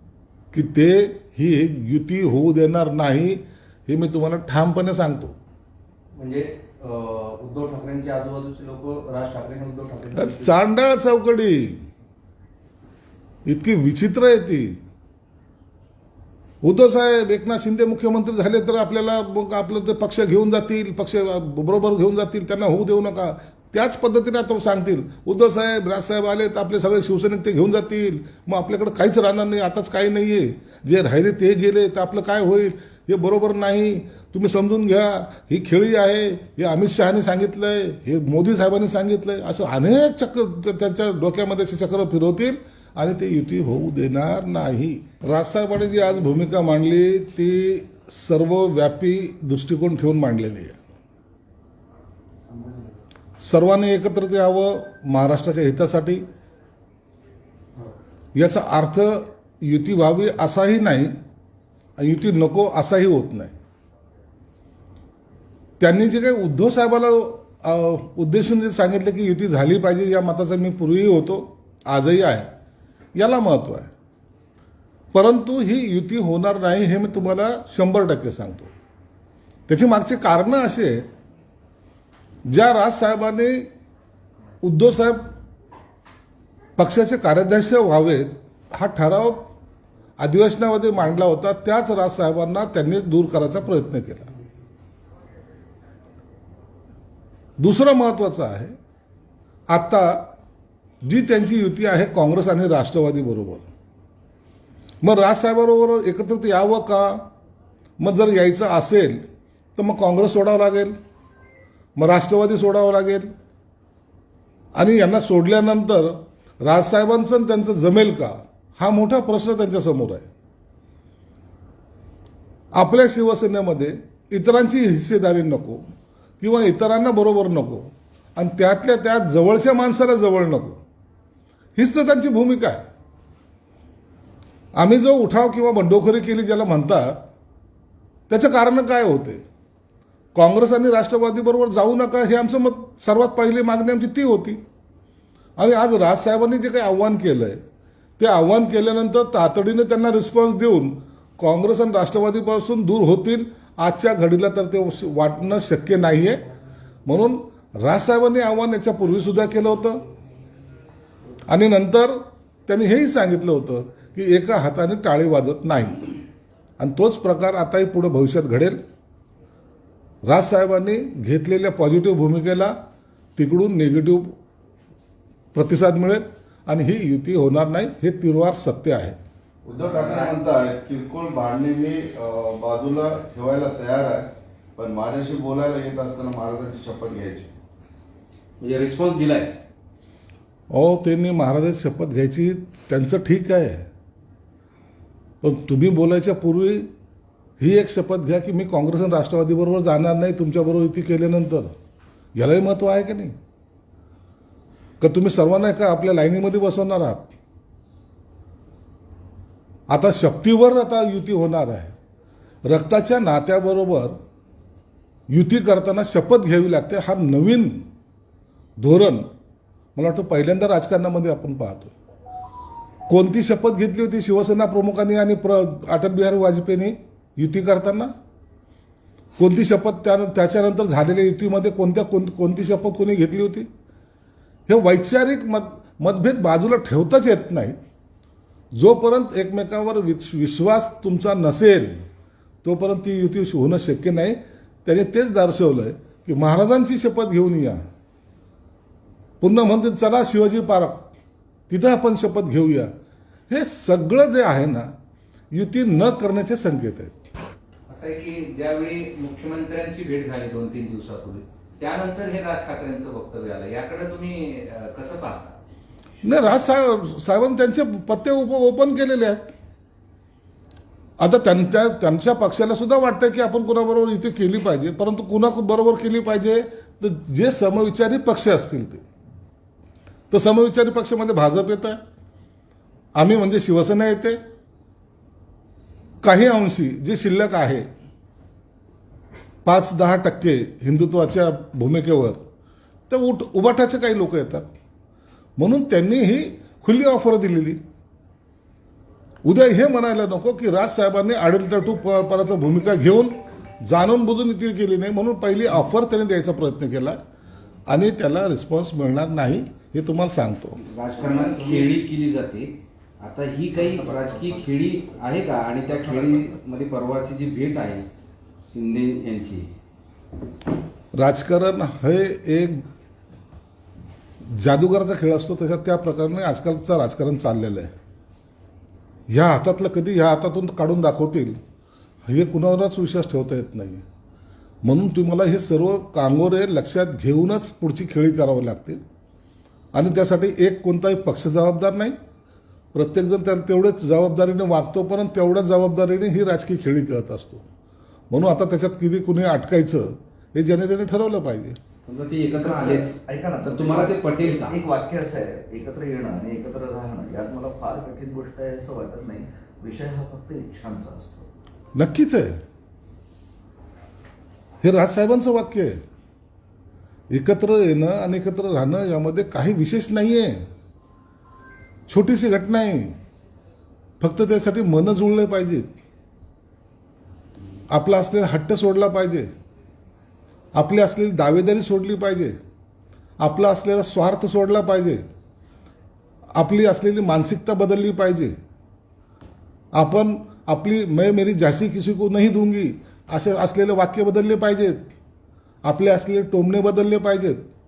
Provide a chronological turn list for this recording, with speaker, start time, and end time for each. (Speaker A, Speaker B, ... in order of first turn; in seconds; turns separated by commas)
Speaker A: 0.5-5.3, Speaker B: 6.1-10.6, Speaker A: 10.1-11.8, Speaker A: 13.5-14.8, Speaker A: 16.6-50.8, Speaker B: 52.5-53.0, Speaker A: 53.4-56.2, Speaker A: 58.4-61.1, Speaker A: 62.0-63.5, Speaker A: 65.8-72.5, Speaker A: 73.2-73.9, Speaker A: 75.1-78.7, Speaker A: 79.7-81.1, Speaker A: 82.5-83.7, Speaker A: 84.6-85.3, Speaker A: 86.8-89.5, Speaker A: 90.2-94.3, Speaker A: 97.6-98.7, Speaker A: 99.7-100.2, Speaker A: 101.0-103.7, Speaker A: 105.0-107.2, Speaker A: 108.0-109.2, Speaker A: 109.8-111.0, Speaker A: 112.0-113.3, Speaker A: 114.8-120.3, Speaker A: 122.8-125.8, Speaker A: 126.4-130.8, Speaker A: 131.8-132.8, Speaker A: 134.8-137.2, Speaker A: 138.3-139.4, Speaker A: 140.3-144.6, Speaker A: 145.6-147.6, Speaker A: 148.2-156.4, Speaker A: 157.1-160.0, Speaker A: 161.5-166.1, Speaker A: 166.8-168.8, Speaker A: 170.3-172.7, Speaker A: 173.4-174.3, Speaker A: 175.5-179.2, Speaker C: 179.7-187.5, Speaker D: 180.0-180.3, Speaker D: 188.6-189.6, Speaker A: 190.7-193.9, Speaker A: 195.4-196.9, Speaker A: 197.6-201.7, Speaker A: 202.4-203.3, Speaker A: 205.0-207.3, Speaker A: 209.9-211.9, Speaker A: 212.7-214.2, Speaker A: 215.3-217.8, Speaker A: 218.8-219.3, Speaker A: 220.0-221.9, Speaker A: 223.1-228.1, Speaker A: 229.4-233.7, Speaker A: 234.7-237.8, Speaker A: 238.7-242.0, Speaker A: 242.6-247.8, Speaker A: 249.4-251.1, Speaker A: 251.7-252.9, Speaker A: 253.5-254.9, Speaker A: 255.5-257.2, Speaker E: 257.9-265.6, Speaker A: 266.2-269.5, Speaker A: 271.2-279.0, Speaker A: 280.3-282.0, Speaker A: 283.2-284.4, Speaker A: 286.2-287.9, Speaker A: 289.6-292.4, Speaker A: 293.1-294.7, Speaker A: 295.6-297.8, Speaker A: 299.4-307.2, Speaker A: 307.9-310.8, Speaker D: 310.8-318.1, Speaker E: 311.2-311.9, Speaker E: 313.9-314.6, Speaker D: 318.7-319.7, Speaker A: 321.1-322.8, Speaker A: 324.5-327.9, Speaker A: 329.3-331.6, Speaker A: 332.3-334.0, Speaker A: 334.9-339.0, Speaker A: 339.9-342.1, Speaker A: 342.9-347.6, Speaker A: 348.3-351.8, Speaker D: 352.1-354.8, Speaker F: 352.5-361.5, Speaker A: 361.9-362.6, Speaker A: 364.8-366.0, Speaker A: 367.3-370.6, Speaker A: 372.1-373.2, Speaker A: 374.2-375.9, Speaker A: 377.9-379.5, Speaker A: 380.8-382.6, Speaker A: 383.4-385.2, Speaker A: 386.6-388.6, Speaker A: 389.9-395.0, Speaker A: 395.8-397.6